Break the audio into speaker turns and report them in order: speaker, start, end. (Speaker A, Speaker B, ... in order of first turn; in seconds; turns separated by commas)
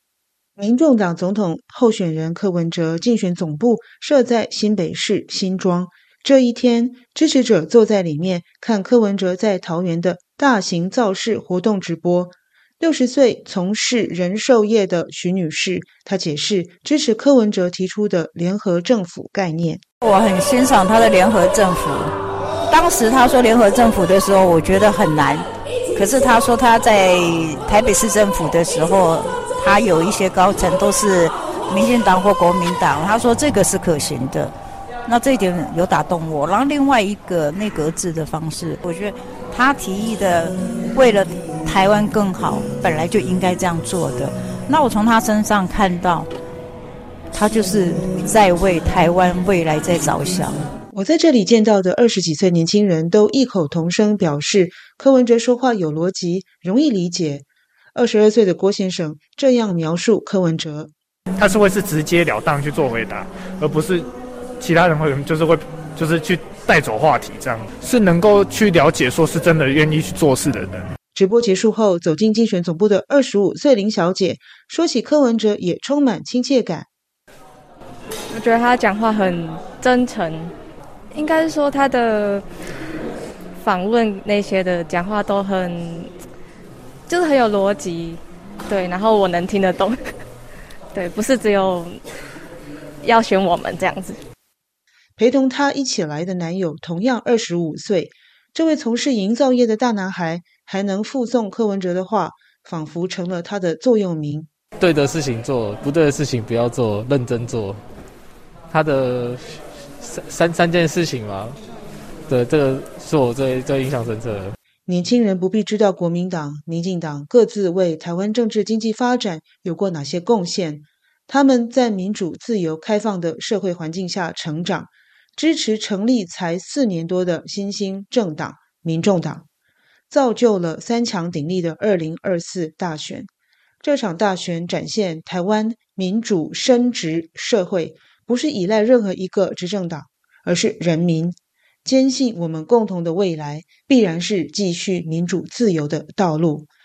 Speaker A: 0.6-19.8, Speaker B: 20.0-22.1, Speaker B: 22.7-34.5, Speaker B: 35.0-46.3, Speaker B: 47.3-50.6, Speaker A: 50.9-60.9, Speaker C: 61.4-64.0, Speaker C: 64.6-70.8, Speaker A: 71.1-76.9, Speaker D: 78.3-80.5, Speaker D: 81.1-82.4, Speaker D: 83.6-86.1, Speaker D: 87.1-90.1, Speaker D: 90.9-92.0, Speaker D: 93.0-94.2, Speaker A: 95.2-104.5, Speaker E: 104.8-107.8, Speaker E: 108.7-111.6, Speaker E: 112.3-114.5, Speaker A: 114.8-129.4, Speaker A: 130.1-133.3, Speaker A: 133.8-146.7